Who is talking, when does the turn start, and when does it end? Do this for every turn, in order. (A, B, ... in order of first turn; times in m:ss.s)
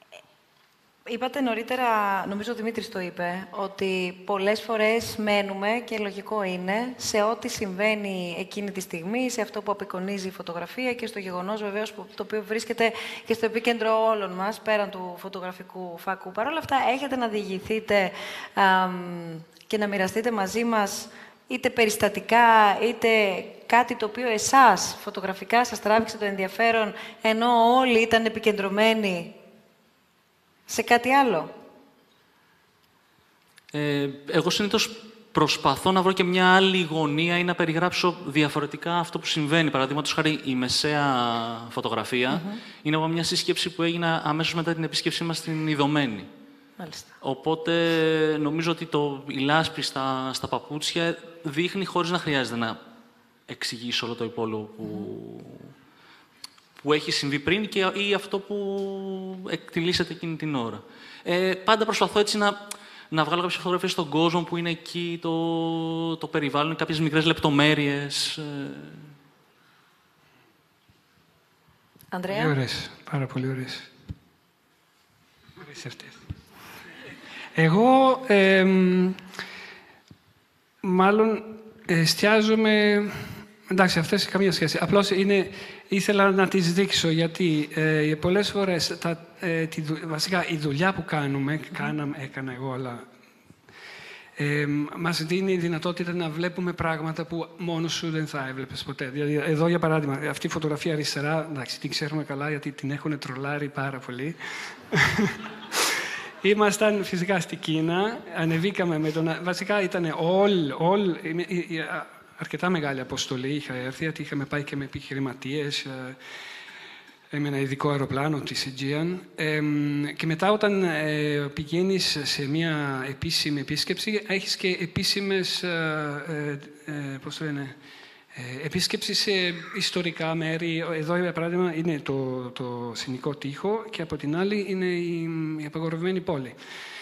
0:01.0-0:29.4 A
0:30.7-0:31.5 A
0:33.7-0:46.3 B
0:42.3-0:42.6 A
0:46.8-0:47.1 A
0:47.2-0:52.8 B
0:53.5-0:55.7 B
0:54.8-0:55.1 A
0:56.8-1:09.1 B
1:12.1-1:12.6 A
1:12.3-1:13.9 C
1:15.6-1:16.2 C
1:17.6-1:19.2 C
1:20.8-1:33.1 C
1:34.4-1:56.2 C
1:57.3-2:07.8 C
2:08.3-2:16.6 C